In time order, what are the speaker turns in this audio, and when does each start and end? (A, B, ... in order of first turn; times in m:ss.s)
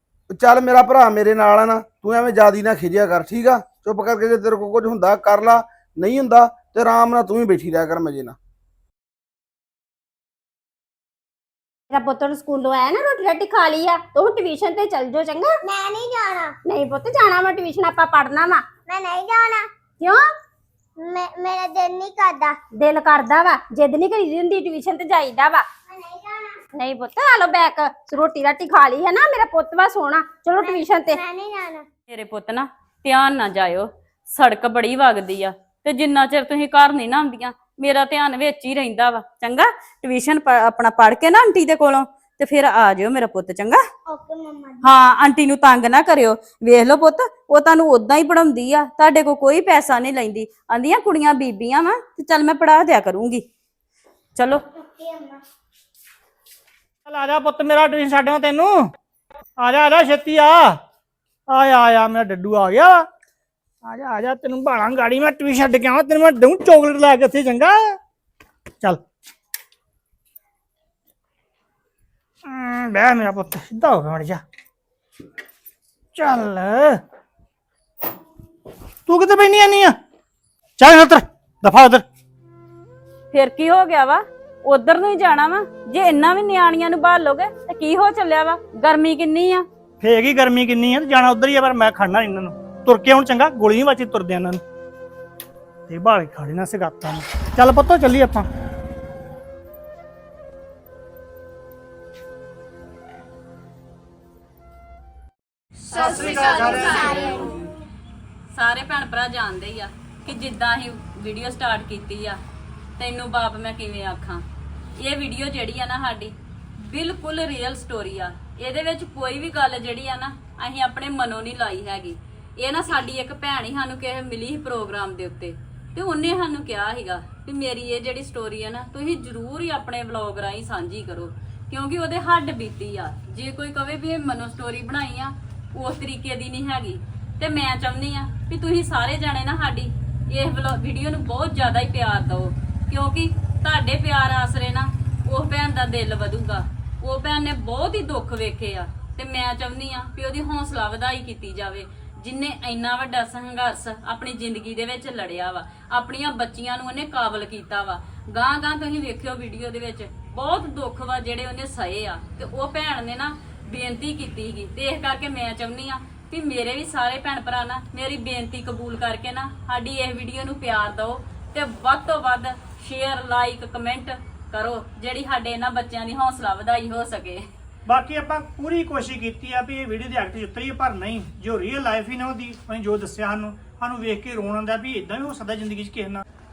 0:00.3-0:08.4 A
0:11.9-0:15.5 B
0:15.6-0:16.6 C
0:16.6-0:18.7 B
0:18.8-0:19.7 C
0:21.0-0:22.6 C
0:22.8-0:25.7 B
0:25.9-0:26.6 C
0:26.7-0:31.2 B
0:31.1-0:31.9 C
0:32.1-0:43.8 D
0:44.1-0:44.8 C
0:44.8-0:53.4 D
0:54.4-0:54.6 D
0:54.7-0:55.4 C
0:57.1-0:58.8 E
0:59.6-1:00.8 E
1:01.5-1:03.1 E
1:03.8-1:08.0 E
1:12.4-1:14.4 E
1:16.1-1:17.0 E
1:19.1-1:20.0 E
1:20.8-1:22.0 E
1:23.3-1:29.6 D
1:30.0-1:34.6 E
1:35.9-1:38.5 E
1:45.8-1:47.4 E
1:46.0-1:46.7 D
1:48.5-1:52.4 D
1:53.0-1:54.4 D
1:55.0-2:57.4 D
2:57.9-3:06.2 E